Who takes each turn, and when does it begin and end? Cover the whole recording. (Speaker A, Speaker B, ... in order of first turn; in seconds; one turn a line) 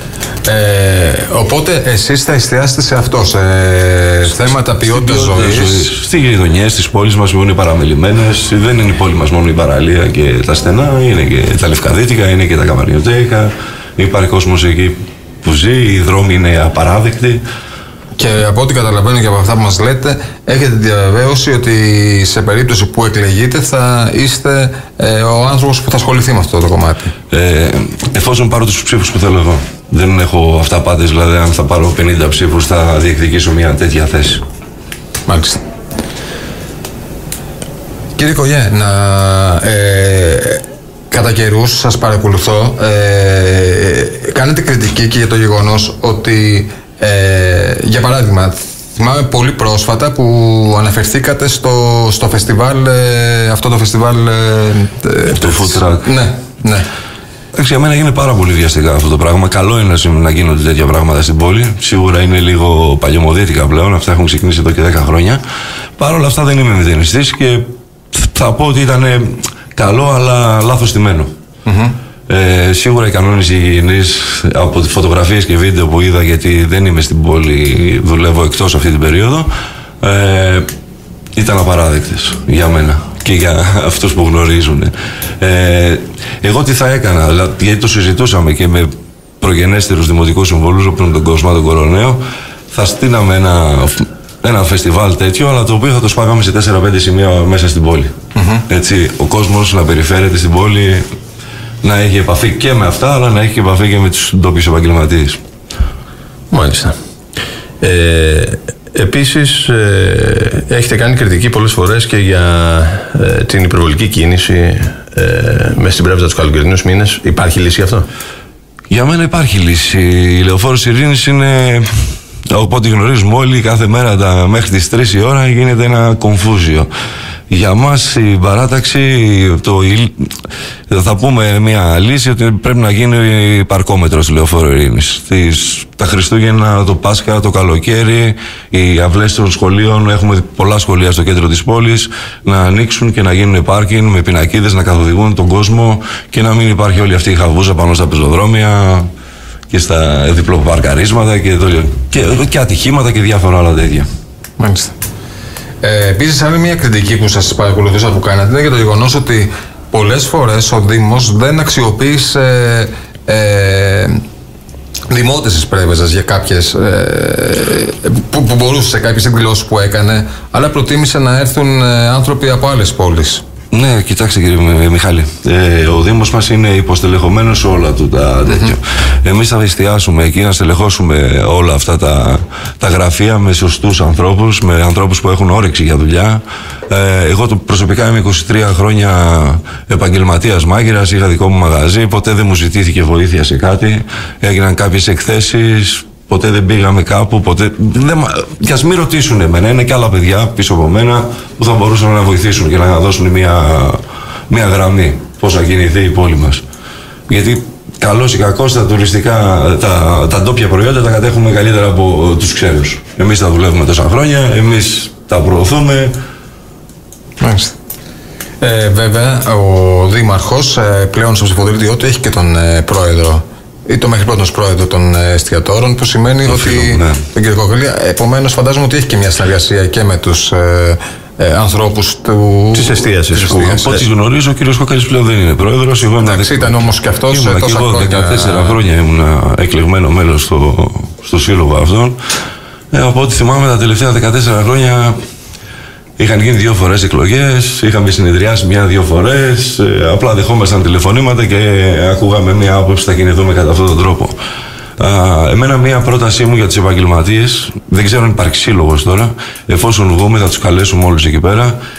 Speaker A: 0.4-5.9
Speaker B: 4.4-17.4
Speaker A: 18.2-27.1
Speaker B: 27.3-34.4
Speaker A: 35.3-35.6
Speaker A: 38.2-56.9
Speaker B: 55.4-56.1
Speaker B: 57.5-65.4
Speaker B: 66.0-71.3
Speaker A: 71.7-71.9
Speaker B: 72.3-79.5
Speaker B: 80.0-80.7
Speaker B: 81.4-88.9
Speaker B: 89.4-92.2
Speaker B: 92.7-98.1
Speaker A: 98.3-98.7
Speaker B: 98.7-101.0
Speaker B: 101.8-105.4
Speaker C: 106.5-106.9
Speaker C: 107.8-118.1
Speaker B: 118.9-121.9
Speaker B: 122.5-126.9
Speaker B: 127.5-130.3
Speaker B: 130.9-149.1
Speaker B: 149.7-154.1
Speaker A: 154.6-154.9
Speaker A: 155.8-164.2
Speaker A: 165.1-173.4
Speaker B: 173.7-206.6
Speaker A: 178.5-178.7
Speaker B: 207.3-216.1
Speaker A: 217.4-217.8
Speaker A: 218.6-234.0
Speaker B: 226.5-227.2
Speaker C: 232.7-234.1
Speaker B: 233.8-242.2
Speaker A: 236.2-238.8
Speaker B: 242.9-245.2
Speaker B: 246.2-254.4
Speaker B: 255.0-261.8